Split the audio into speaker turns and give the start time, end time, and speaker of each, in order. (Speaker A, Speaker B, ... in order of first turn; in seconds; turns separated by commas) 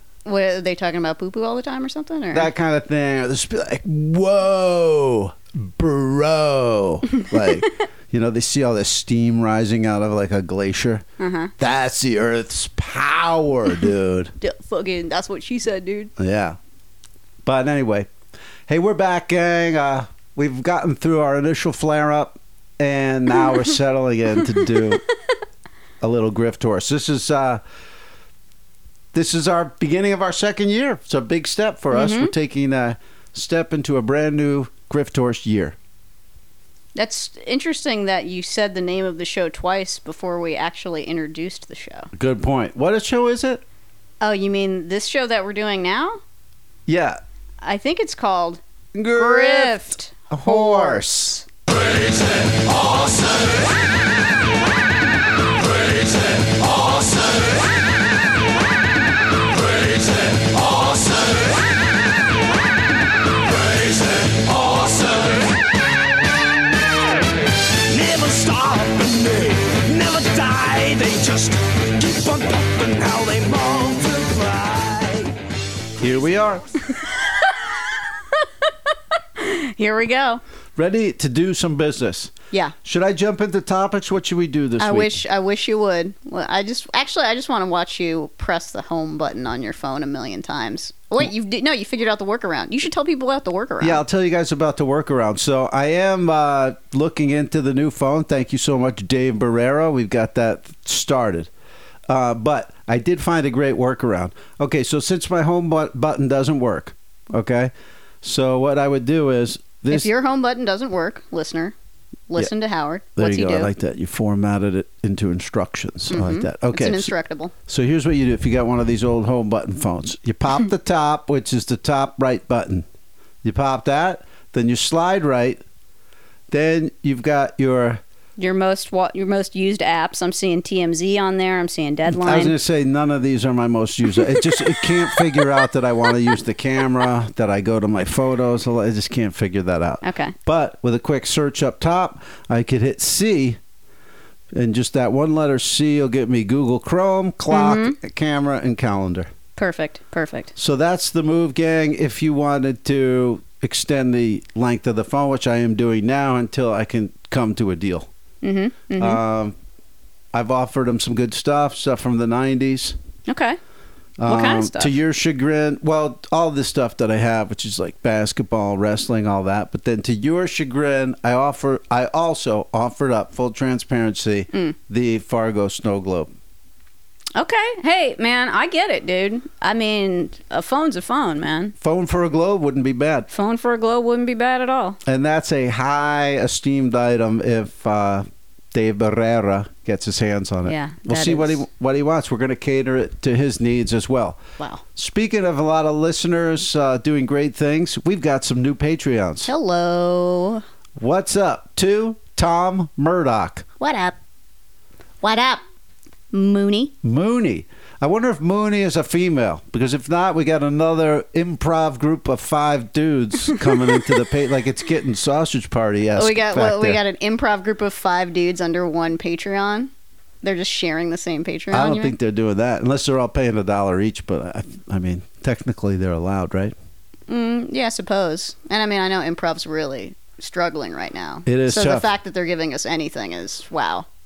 Speaker A: 0.3-2.5, Speaker B: 2.3-11.0, Speaker A: 11.2-11.5, Speaker B: 11.6-14.3, Speaker A: 14.4-16.1, Speaker B: 16.2-16.6, Speaker B: 17.4-18.1, Speaker B: 18.7-25.0, Speaker B: 26.0-27.6, Speaker B: 29.1-35.8, Speaker A: 31.9-32.3, Speaker A: 37.0-42.1, Speaker B: 42.1-43.6, Speaker A: 44.2-46.2, Speaker B: 46.9-47.2, Speaker A: 47.6-48.6, Speaker B: 48.9-51.4, Speaker A: 49.1-51.3, Speaker C: 51.7-53.7, Speaker C: 55.6-57.6, Speaker C: 59.5-61.6, Speaker C: 63.6-65.5, Speaker C: 67.7-75.3, Speaker B: 76.0-76.6, Speaker A: 77.1-77.6, Speaker A: 79.4-80.4, Speaker B: 80.8-85.2, Speaker A: 84.8-94.0, Speaker B: 93.8-101.5, Speaker B: 102.1-110.1, Speaker A: 109.9-111.7, Speaker A: 112.3-113.7, Speaker B: 113.2-117.1, Speaker A: 116.1-117.5, Speaker B: 117.7-122.9, Speaker B: 123.4-125.6, Speaker B: 126.5-128.0, Speaker A: 128.4-132.6, Speaker B: 132.1-143.6, Speaker A: 134.6-135.2, Speaker A: 140.0-140.3, Speaker B: 144.5-149.3, Speaker A: 147.5-148.0, Speaker A: 149.6-150.5, Speaker B: 150.6-158.1, Speaker A: 158.4-159.2, Speaker B: 159.0-159.6, Speaker B: 160.3-163.0, Speaker A: 163.3-163.6, Speaker B: 164.2-176.3, Speaker A: 164.3-164.9, Speaker A: 177.4-181.8, Speaker B: 181.8-183.3, Speaker A: 183.3-185.0, Speaker B: 185.1-194.4, Speaker A: 190.7-191.6, Speaker A: 194.6-194.8, Speaker B: 195.0-199.5, Speaker A: 199.5-200.6, Speaker B: 201.0-203.7, Speaker A: 203.8-204.2, Speaker A: 205.2-205.6, Speaker A: 206.3-206.9, Speaker B: 207.0-217.0, Speaker A: 216.2-219.9, Speaker A: 220.4-222.2, Speaker B: 221.7-226.7, Speaker A: 227.3-234.1, Speaker B: 231.5-232.1